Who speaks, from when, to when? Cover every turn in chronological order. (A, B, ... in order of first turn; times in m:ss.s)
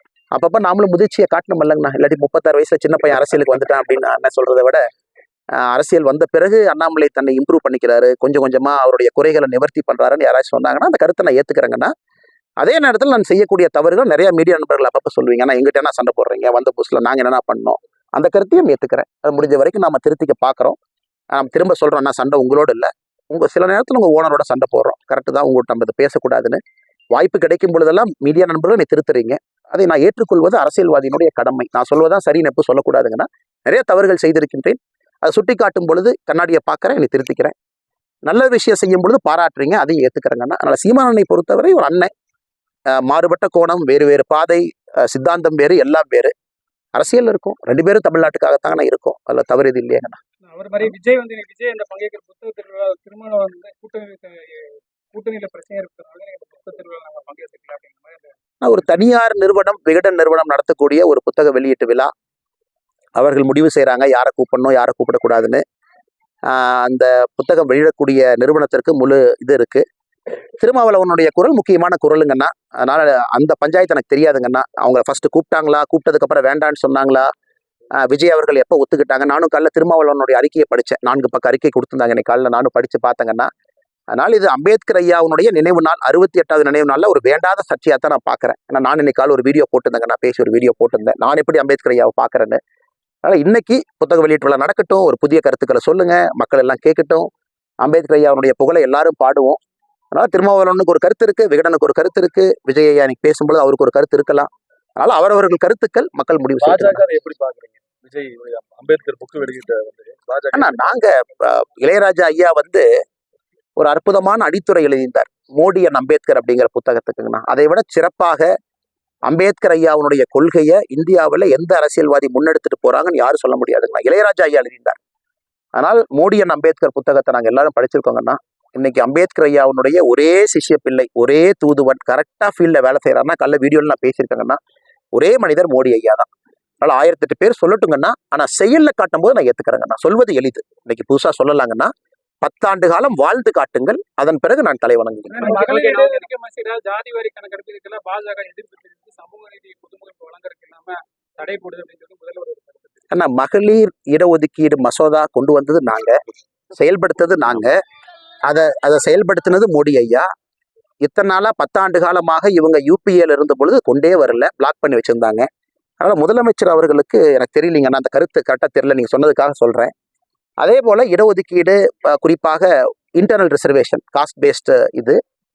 0:00.3-0:04.8 A
0:05.6-0:11.9 A
0:12.6-0:20.8 A
0:21.3-0:26.6 A
0:27.1-0:37.5 A
0:38.3-0:42.1 A
0:42.9-0:46.3 A
0:47.0-0:50.2 A
0:50.5-0:58.3 B
0:58.6-1:02.1 A
1:03.2-1:05.6 A
1:06.5-1:09.8 A
1:10.6-1:17.3 A
1:18.0-1:23.5 A
1:24.1-1:32.6 A
1:33.2-1:37.3 A
1:37.8-1:39.6 A
1:40.1-1:47.0 A
1:46.6-1:51.1 C
1:50.5-1:52.9 A
1:53.8-1:58.5 A
1:59.3-2:05.0 A
2:05.8-2:14.6 A
2:15.1-2:16.3 A
2:16.8-2:25.5 A
2:25.3-2:33.1 B
2:33.1-2:36.2 A
2:36.7-2:37.8 A
2:38.4-2:40.3 A
2:41.0-2:45.5 A
2:46.0-2:49.9 A
2:50.6-2:55.2 A